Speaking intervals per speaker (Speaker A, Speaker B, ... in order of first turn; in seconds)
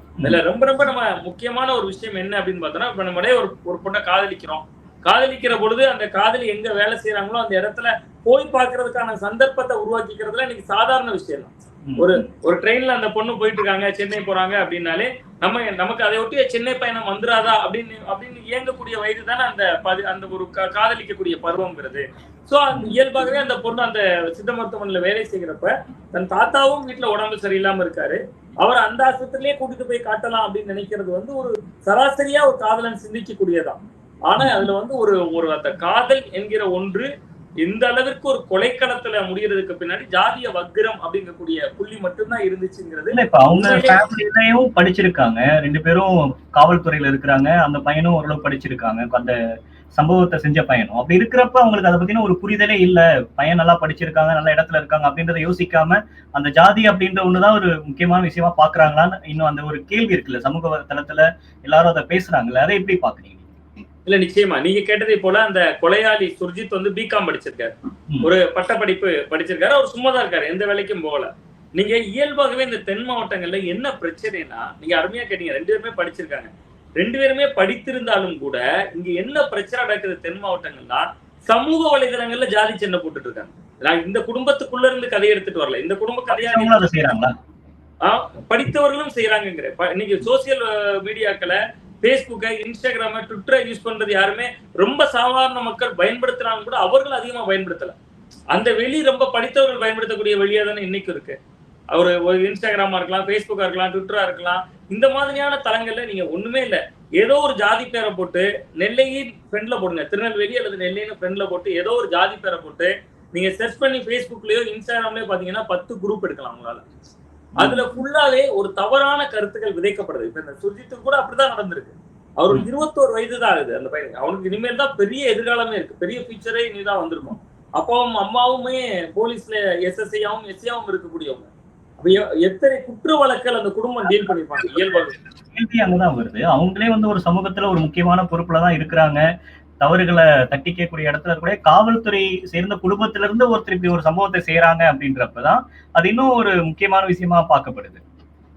Speaker A: 0.2-37.1, 37.6-44.0, 64.0-86.8, 88.0-97.9, 98.5-101.4, 101.9-116.8, 117.6-131.5, 132.0-135.2
Speaker B: 34.4-34.7, 43.1-49.4, 49.9-63.6, 86.3-87.3, 117.6-117.9, 135.5-139.2, 139.8-148.0